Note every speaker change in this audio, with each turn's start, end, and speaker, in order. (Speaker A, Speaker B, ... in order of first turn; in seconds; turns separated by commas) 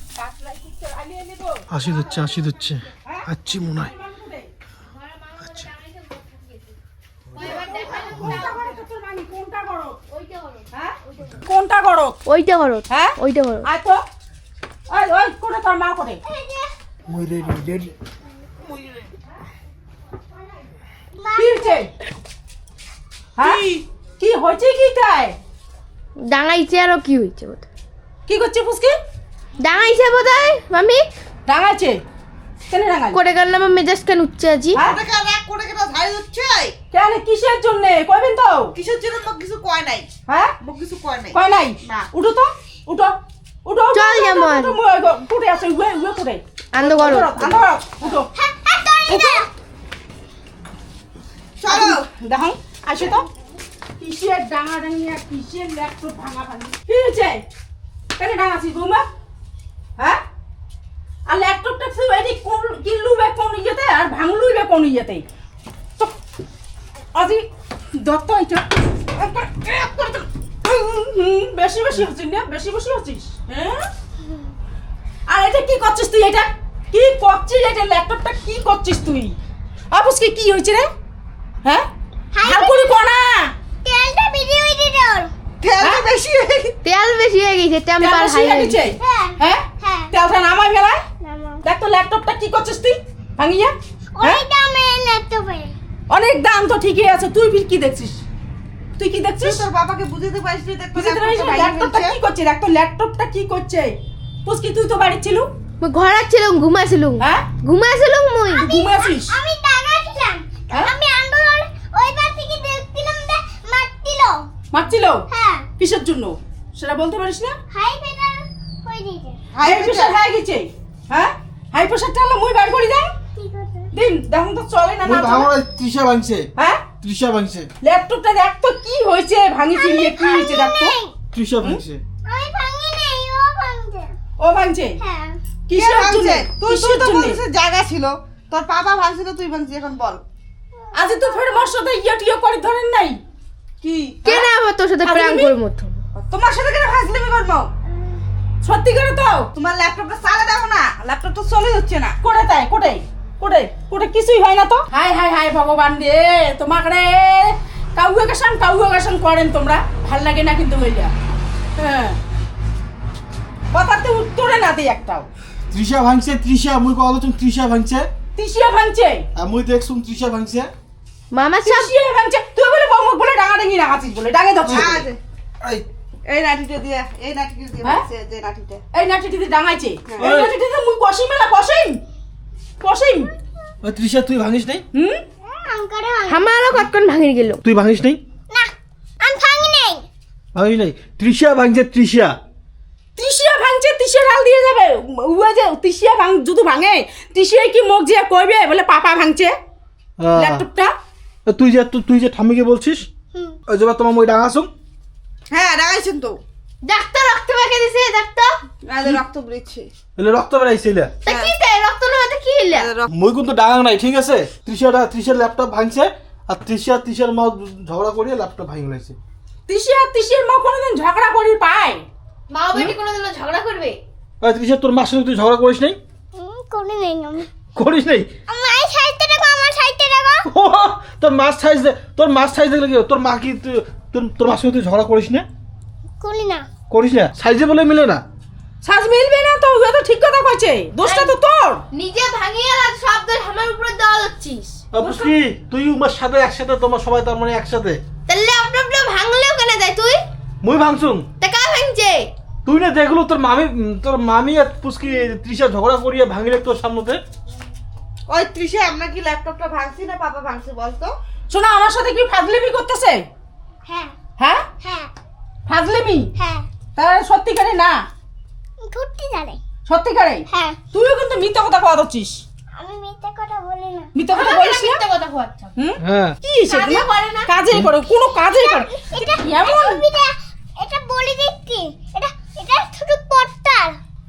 Speaker A: 0.1-1.8, Speaker B: 1.7-3.9, Speaker A: 3.8-4.5, Speaker C: 4.8-6.8, Speaker C: 7.3-8.8, Speaker A: 7.4-10.0, Speaker C: 10.1-11.4, Speaker A: 10.7-12.2, Speaker C: 12.2-13.7, Speaker A: 12.9-14.0, Speaker A: 14.9-16.2, Speaker D: 16.2-16.7, Speaker B: 17.1-17.9, Speaker D: 21.1-21.8, Speaker A: 21.4-21.9, Speaker A: 23.4-25.4, Speaker E: 23.4-23.8, Speaker C: 26.2-27.7, Speaker A: 28.3-29.0, Speaker C: 29.6-31.0, Speaker A: 31.5-32.0, Speaker A: 32.7-33.2, Speaker C: 33.1-34.8, Speaker E: 34.8-36.8, Speaker A: 36.9-38.7, Speaker E: 38.8-40.1, Speaker A: 40.3-40.5, Speaker E: 40.6-42.1, Speaker A: 41.3-48.3, Speaker C: 43.9-44.8, Speaker C: 46.7-47.5, Speaker E: 47.1-47.6, Speaker D: 48.3-49.5, Speaker A: 49.1-49.5, Speaker E: 51.6-52.0, Speaker A: 51.7-53.3, Speaker A: 54.0-57.4, Speaker A: 58.2-59.1, Speaker A: 60.0-60.2, Speaker A: 61.3-65.3, Speaker A: 67.2-73.9, Speaker A: 75.3-79.3, Speaker A: 79.9-80.9, Speaker A: 81.6-81.9, Speaker D: 82.3-83.0, Speaker A: 82.4-83.5, Speaker D: 83.8-85.3, Speaker E: 85.6-86.8, Speaker A: 85.8-86.0, Speaker C: 86.8-88.8, Speaker A: 88.0-91.0, Speaker D: 89.0-90.1, Speaker D: 91.2-91.6, Speaker A: 91.6-94.4, Speaker D: 94.2-95.8, Speaker A: 96.1-98.2, Speaker A: 99.0-99.6, Speaker E: 99.4-102.2, Speaker A: 101.0-105.5, Speaker C: 105.8-108.7, Speaker A: 107.2-107.5, Speaker D: 108.5-114.5, Speaker A: 108.6-109.4, Speaker A: 114.7-115.2, Speaker D: 115.3-115.7, Speaker A: 115.8-117.6, Speaker D: 117.7-119.4, Speaker E: 119.5-120.2, Speaker A: 119.6-123.1, Speaker D: 123.3-123.9, Speaker A: 123.9-125.5, Speaker B: 125.0-126.5, Speaker A: 126.6-126.8, Speaker B: 127.0-127.7, Speaker A: 127.8-130.9, Speaker D: 129.7-131.1, Speaker B: 131.3-132.0, Speaker D: 132.2-134.1, Speaker A: 134.4-135.0, Speaker D: 135.0-135.4, Speaker A: 135.7-137.4, Speaker E: 135.8-140.2, Speaker A: 140.9-143.2, Speaker D: 141.0-141.4, Speaker E: 143.8-144.3, Speaker C: 144.2-146.0, Speaker A: 145.0-145.6, Speaker A: 146.3-147.6, Speaker E: 146.4-147.7, Speaker A: 148.6-149.5, Speaker E: 149.5-152.2, Speaker A: 152.2-161.1, Speaker A: 161.8-162.2, Speaker A: 163.7-165.3, Speaker B: 165.7-168.1, Speaker A: 168.3-169.3, Speaker B: 169.3-170.7, Speaker C: 171.3-171.9, Speaker A: 171.7-175.0, Speaker B: 174.7-175.1, Speaker E: 174.7-175.2, Speaker E: 176.2-178.8, Speaker A: 178.9-182.0, Speaker E: 180.1-180.3, Speaker B: 180.2-180.5, Speaker A: 182.8-183.3, Speaker B: 183.8-184.8, Speaker A: 184.9-185.2, Speaker D: 185.4-186.7, Speaker C: 186.3-187.6, Speaker B: 187.6-188.2, Speaker D: 188.5-190.0, Speaker B: 190.5-192.4, Speaker A: 193.2-199.5, Speaker B: 200.2-200.7, Speaker A: 200.3-200.9, Speaker B: 201.5-203.1, Speaker B: 203.7-204.7, Speaker E: 205.5-206.4, Speaker C: 206.8-208.6, Speaker E: 208.8-209.9, Speaker B: 210.2-211.2, Speaker C: 211.2-212.9, Speaker E: 211.3-211.5, Speaker E: 212.7-213.1, Speaker B: 213.1-219.2, Speaker A: 219.7-222.0, Speaker C: 222.5-224.0, Speaker B: 224.4-226.0, Speaker D: 226.3-227.5, Speaker B: 227.7-228.3, Speaker D: 228.5-230.5, Speaker B: 230.4-235.5, Speaker D: 236.2-236.7, Speaker B: 236.9-238.2, Speaker A: 238.8-241.8, Speaker C: 241.0-241.3, Speaker C: 241.9-244.8, Speaker B: 244.9-248.0, Speaker A: 245.0-245.3, Speaker C: 248.3-250.2, Speaker B: 250.6-251.3, Speaker C: 251.4-252.3, Speaker B: 252.7-257.2, Speaker E: 258.3-261.2, Speaker A: 261.5-263.2, Speaker D: 263.9-264.1, Speaker A: 264.4-264.7, Speaker D: 264.8-265.1, Speaker A: 265.7-266.3, Speaker D: 266.4-266.7, Speaker A: 266.9-268.0, Speaker D: 268.8-269.6, Speaker A: 269.9-272.4, Speaker D: 270.5-270.8, Speaker D: 272.8-274.1, Speaker A: 274.1-275.0, Speaker C: 274.3-275.7, Speaker A: 275.8-280.0, Speaker B: 276.0-276.4, Speaker C: 276.7-277.5, Speaker D: 278.4-284.0